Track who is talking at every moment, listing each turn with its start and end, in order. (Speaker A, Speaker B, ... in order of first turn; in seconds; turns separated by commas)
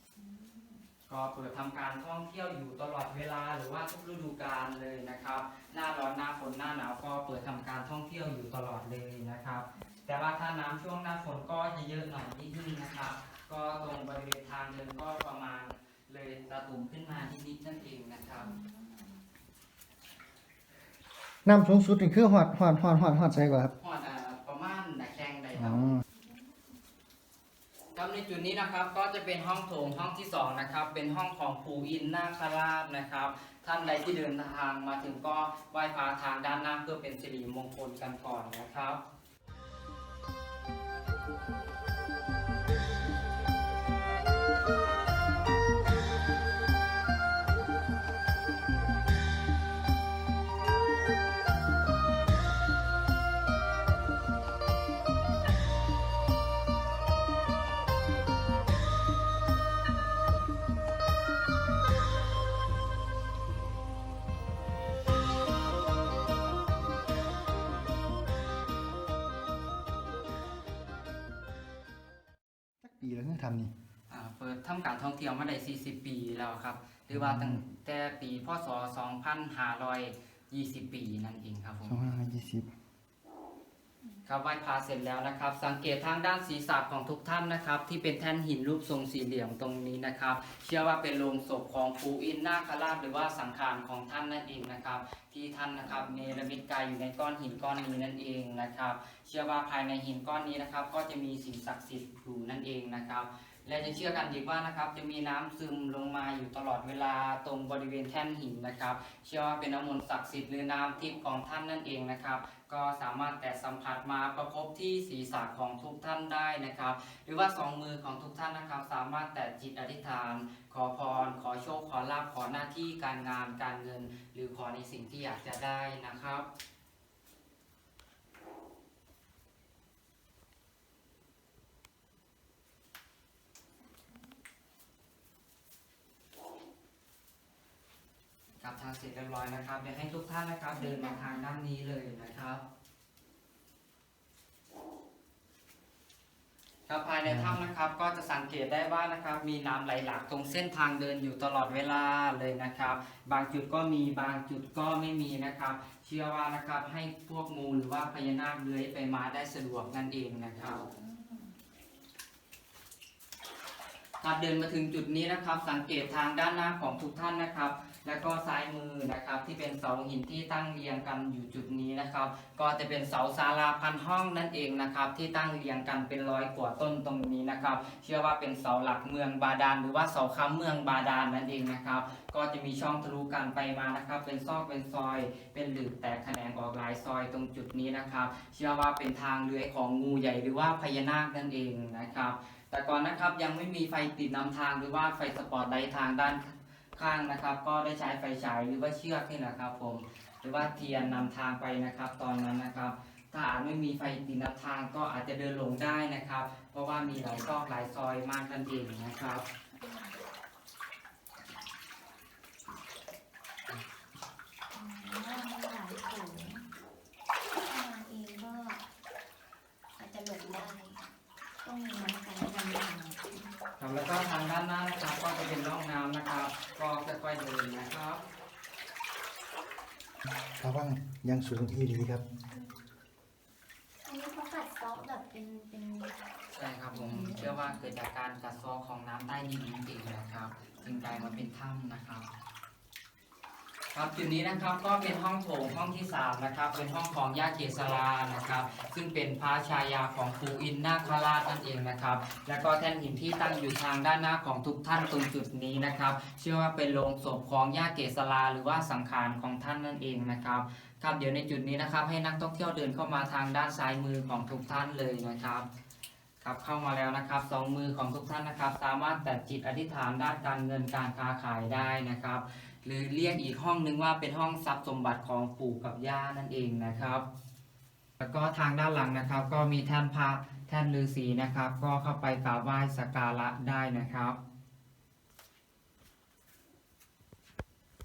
Speaker A: 0.1-0.9, Speaker B: 1.1-18.5, Speaker A: 18.4-19.2, Speaker C: 21.4-23.7, Speaker B: 23.8-26.0, Speaker C: 25.6-26.0, Speaker A: 26.1-26.4, Speaker B: 27.9-39.0, Speaker C: 72.8-73.7, Speaker B: 74.1-82.1, Speaker C: 77.1-77.6, Speaker C: 81.8-82.7, Speaker B: 84.2-126.5, Speaker A: 103.8-104.3, Speaker B: 138.6-142.6, Speaker A: 140.7-141.4, Speaker B: 146.9-160.8, Speaker C: 147.2-147.6, Speaker A: 160.6-161.6, Speaker B: 164.2-209.4, Speaker A: 200.6-201.3, Speaker A: 207.2-207.4, Speaker A: 209.7-210.2, Speaker A: 214.7-216.7, Speaker A: 217.7-218.8, Speaker A: 220.0-221.0, Speaker A: 221.6-223.6, Speaker B: 223.8-228.2, Speaker C: 230.6-232.2, Speaker A: 234.0-236.2, Speaker B: 236.5-242.3, Speaker A: 236.9-237.8, Speaker A: 240.8-241.5, Speaker B: 243.9-265.7, Speaker B: 266.4-277.2, Speaker B: 278.2-284.4